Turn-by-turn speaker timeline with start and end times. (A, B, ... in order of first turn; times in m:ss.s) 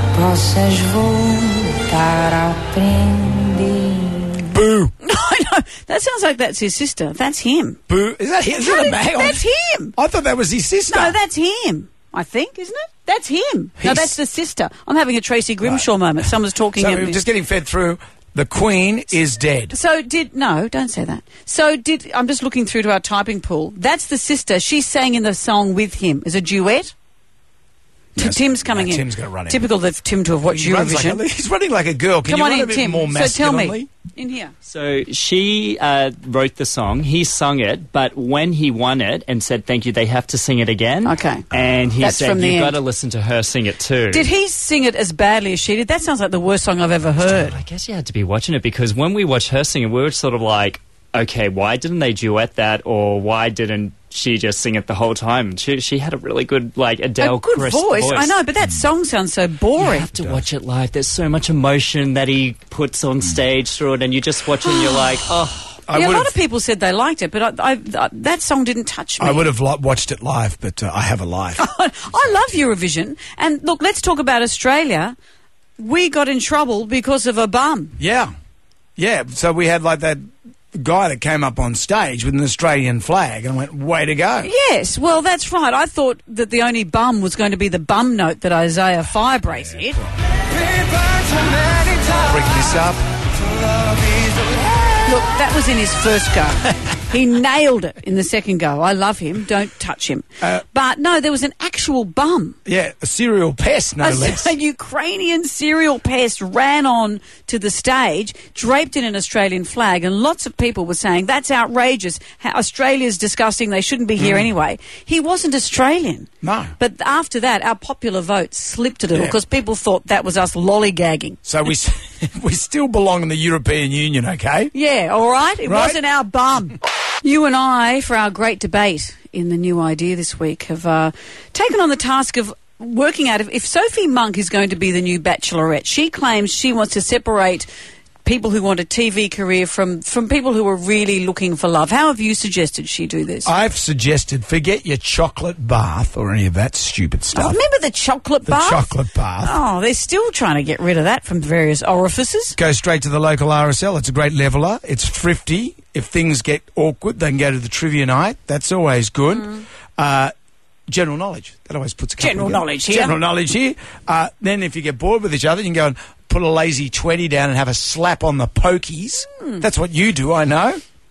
0:00.2-0:03.8 A
0:04.5-0:04.9 B
0:05.0-0:07.8 C
0:07.9-0:09.4 B
0:08.6-0:10.0 C
0:10.0-0:11.2 B
0:10.9-0:17.2 C
0:13.8-0:14.1 B
0:15.6-0:15.9 B
0:16.8-0:19.7 B
0:19.7-0:26.9 C
0:28.2-0:31.2 C
0:28.2-0:29.6 B
0:30.5-0:33.9 B
0:32.3-0:34.5 C
0:34.6-0:44.3 D
0:41.0-0:41.5 C
0:42.0-0:42.8 C
0:44.1-0:47.6 C
0:47.2-0:58.4 D
0:57.2-1:00.1 C
0:59.8-1:05.7 D
1:04.7-1:05.0 C
1:05.9-1:06.3 B
1:05.9-1:09.4 C
1:09.2-1:11.6 B
1:11.6-1:15.2 C
1:15.8-1:18.0 C
1:18.0-1:18.3 B
1:19.0-1:24.5 B
1:24.4-1:30.0 C
1:32.2-1:33.0 B
1:35.0-1:42.6 C
1:42.7-1:44.5 B
1:44.0-2:01.4 C
1:54.2-1:54.5 B
1:56.4-1:56.7 B
2:01.4-2:04.7 B
2:04.7-2:17.7 C
2:05.7-2:06.0 B
2:18.2-2:23.5 C
2:23.4-2:27.6 B
2:27.3-2:28.9 C
2:28.5-2:29.6 B
2:29.4-2:32.6 C
2:32.6-2:40.3 B
2:40.9-2:50.8 B
2:42.2-2:43.2 C